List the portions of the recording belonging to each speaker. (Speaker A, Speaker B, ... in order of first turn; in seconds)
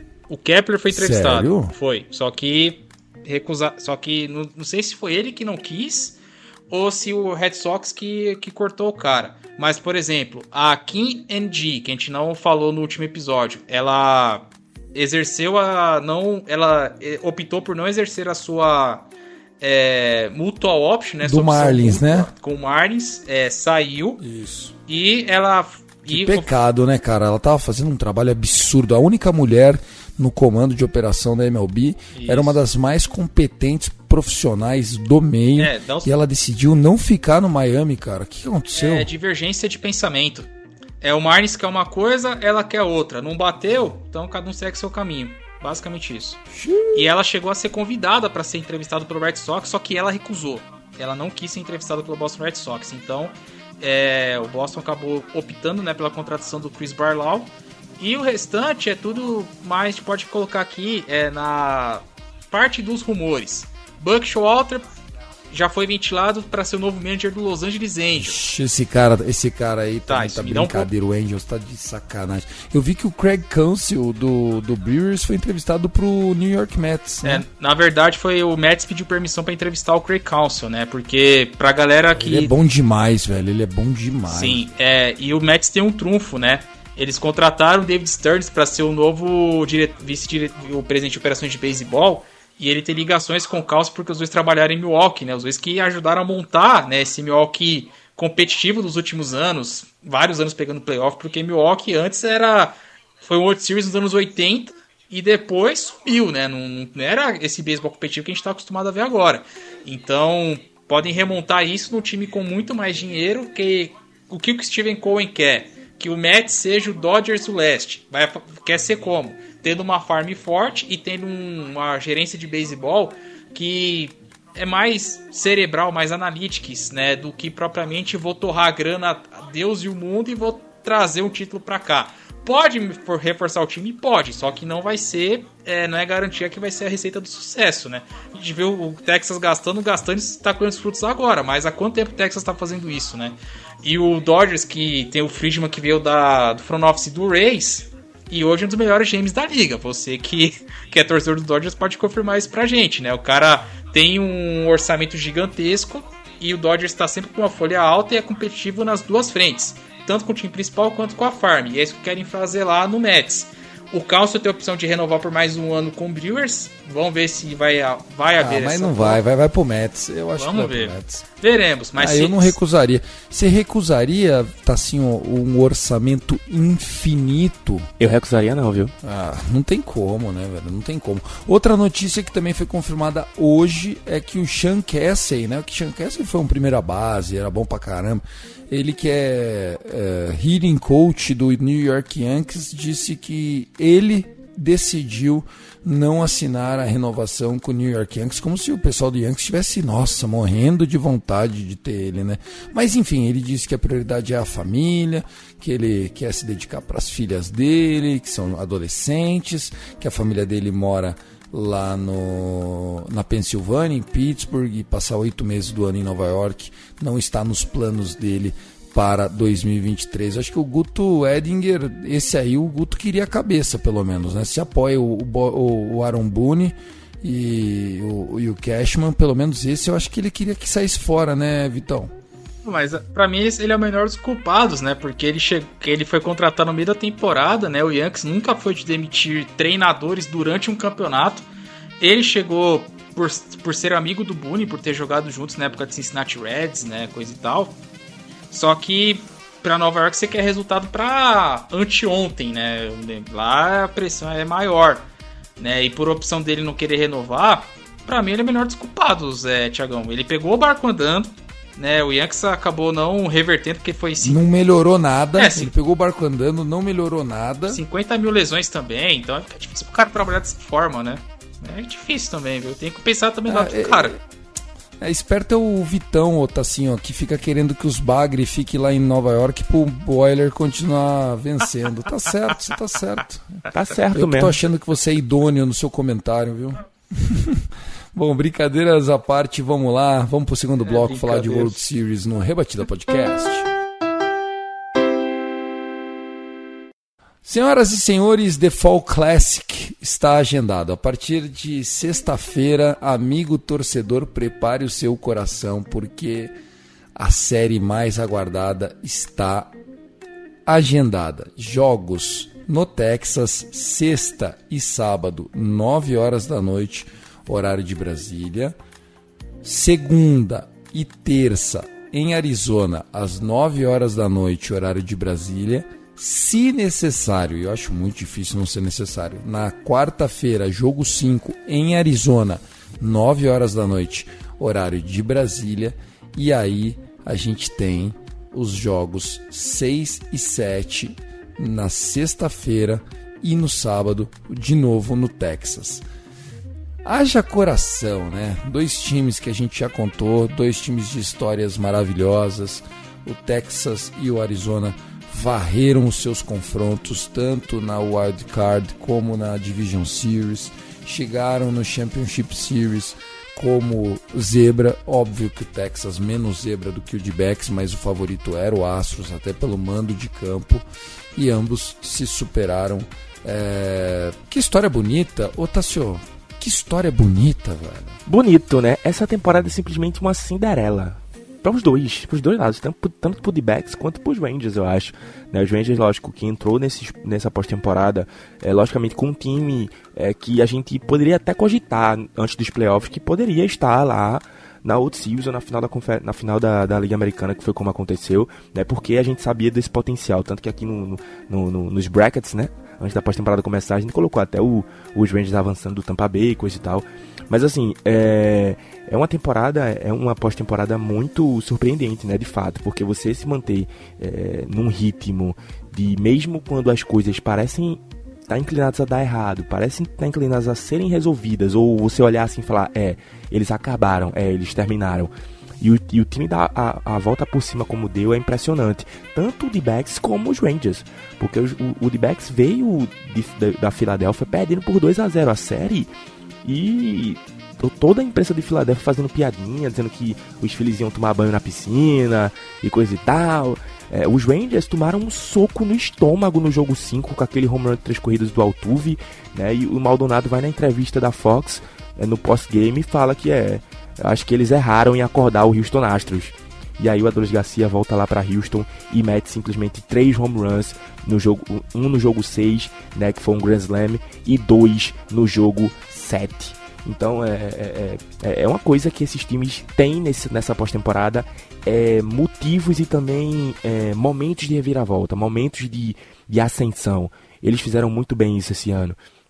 Speaker A: 0.3-6.2, 6.7-19.1, 19.6-24.2, 24.9-26.5, 32.1-32.6, 35.6-36.1, 38.8-40.5, 41.0-46.4, 46.9-64.8, 65.5-68.4, 70.1-70.9, 77.2-82.5, 84.3-169.2, 170.4-172.6, 232.7-241.5, 242.0-247.8, 248.5-255.1, 255.6-264.4, 265.4-265.7, 267.7-274.2, 290.8-291.8
Speaker B: 0.9-1.7, 21.2-22.3, 24.2-24.8, 26.1-39.1, 46.5-47.1, 68.2-77.5, 82.2-84.6, 168.4-171.2, 171.9-177.9, 179.0-232.1, 264.2-267.8, 273.5-274.2, 275.0-293.7, 297.4-306.6, 307.1-309.7, 310.7-318.8, 319.6-346.1, 347.0-378.2
Speaker C: 178.0-178.9, 283.7-284.6, 378.3-436.1, 436.6-479.2